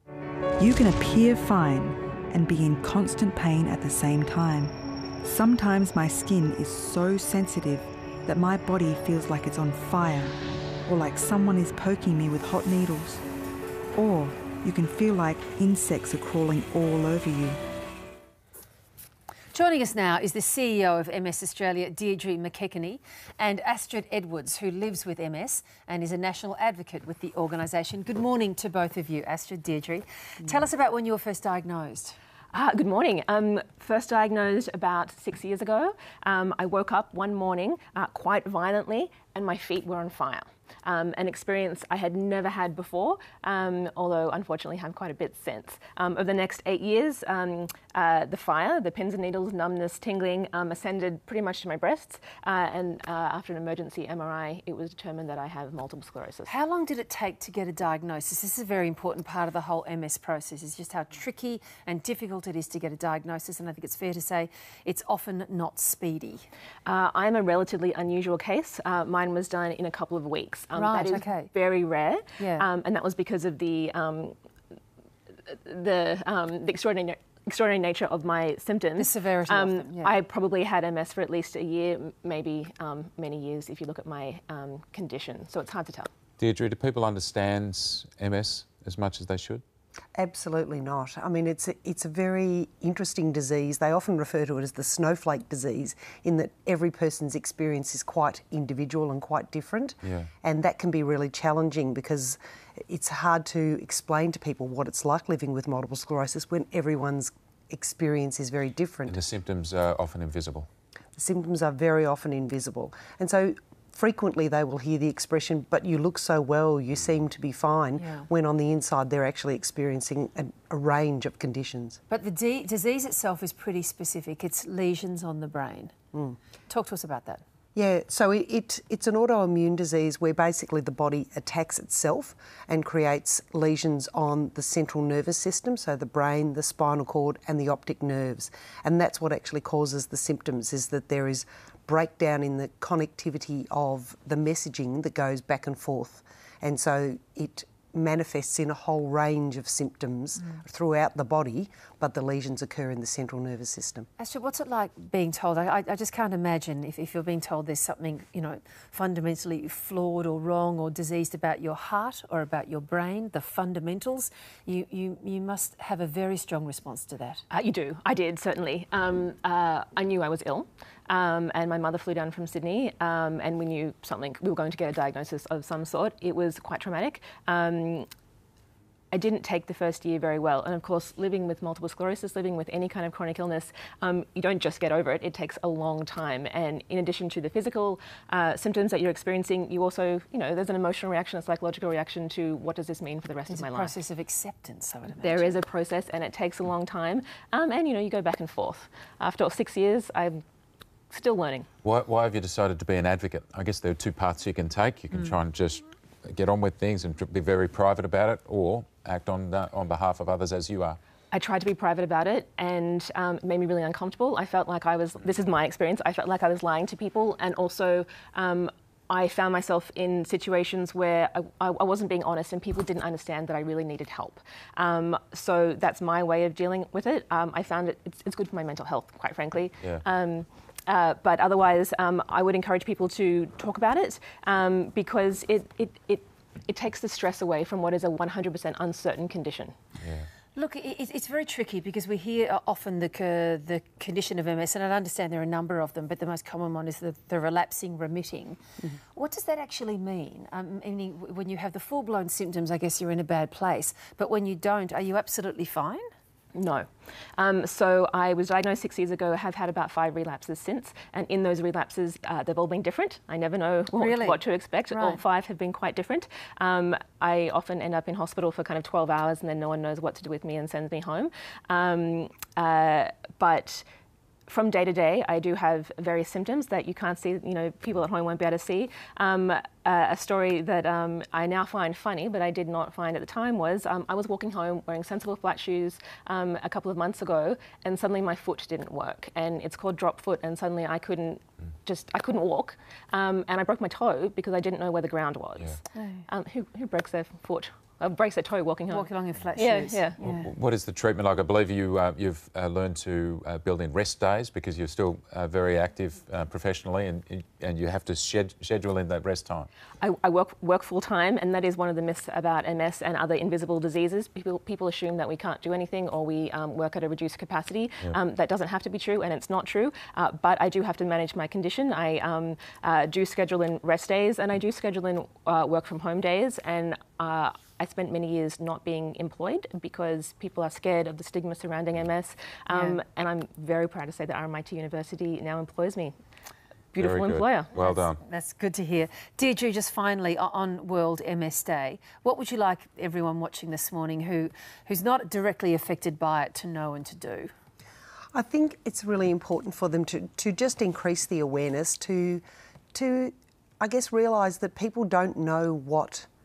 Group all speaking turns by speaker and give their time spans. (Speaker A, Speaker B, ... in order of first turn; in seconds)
Speaker A: 0.6-4.7, 5.2-13.2, 13.9-17.6
Speaker B: 19.5-32.1, 56.5-66.4, 70.7-71.5, 72.4-72.7, 79.0-80.2, 118.0-118.2, 122.1-125.9, 126.7-127.4, 154.2-167.4, 193.5-195.6, 240.6-248.6, 249.1-256.0, 264.0-265.2, 295.9-296.2, 298.9-300.5, 332.7-333.0, 337.9-347.5
Speaker C: 32.5-56.5, 66.8-74.3, 75.5-86.1, 167.5-178.1, 179.1-193.9, 195.1-200.4, 201.1-201.7, 211.3-239.8, 256.5-273.8, 274.5-300.2, 310.0-336.1, 336.9-337.9
Speaker D: 86.4-89.6, 100.0-100.3, 109.1-110.7, 201.8-211.0, 240.0-240.3, 300.2-309.7, 336.9-338.2
Speaker E: 90.1-109.2, 111.2-122.0, 127.7-154.1, 348.3-352.4, 352.9-356.3